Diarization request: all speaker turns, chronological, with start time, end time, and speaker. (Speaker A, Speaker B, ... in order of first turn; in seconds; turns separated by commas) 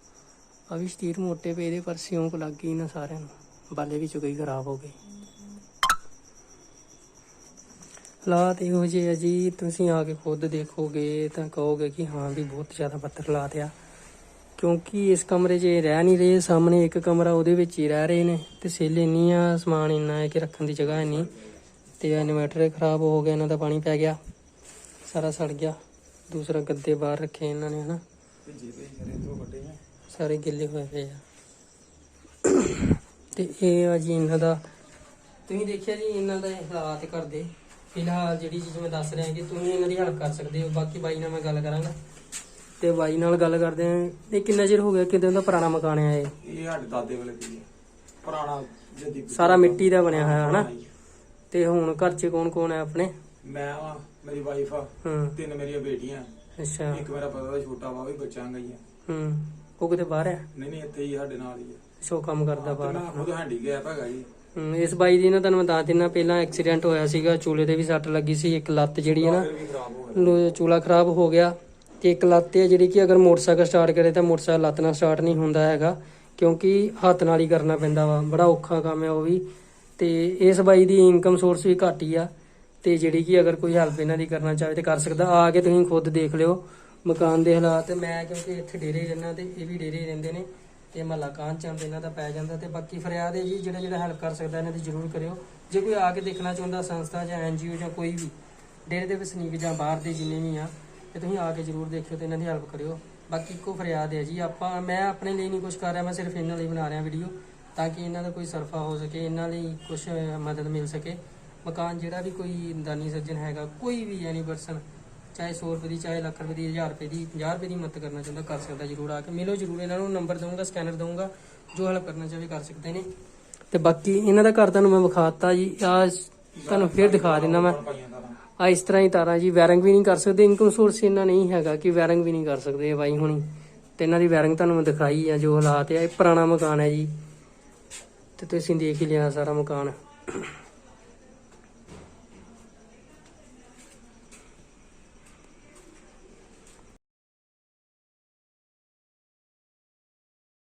Speaker A: 0.7-5.0, Speaker A: 8.2-13.7, Speaker A: 14.6-21.3, Speaker B: 21.1-21.3, Speaker A: 22.0-24.2, Speaker A: 25.0-25.8, Speaker A: 26.3-28.0, Speaker B: 28.4-29.8, Speaker A: 30.1-31.2, Speaker A: 32.4-34.6, Speaker A: 35.5-42.0, Speaker A: 42.8-46.3, Speaker B: 46.4-47.7, Speaker B: 48.2-50.9, Speaker A: 49.3-50.7, Speaker A: 51.5-53.1, Speaker B: 53.4-56.3, Speaker A: 55.0-55.4, Speaker A: 56.6-57.0, Speaker B: 56.9-58.8, Speaker A: 59.0-60.5, Speaker B: 60.5-61.8, Speaker A: 62.0-63.3, Speaker B: 62.5-64.3, Speaker A: 64.5-69.5, Speaker B: 69.0-70.4, Speaker A: 70.1-79.4, Speaker A: 80.0-82.3, Speaker A: 82.8-98.3, Speaker A: 98.8-123.1, Speaker A: 123.7-127.8, Speaker B: 126.5-128.4, Speaker A: 128.6-137.1, Speaker A: 138.4-140.6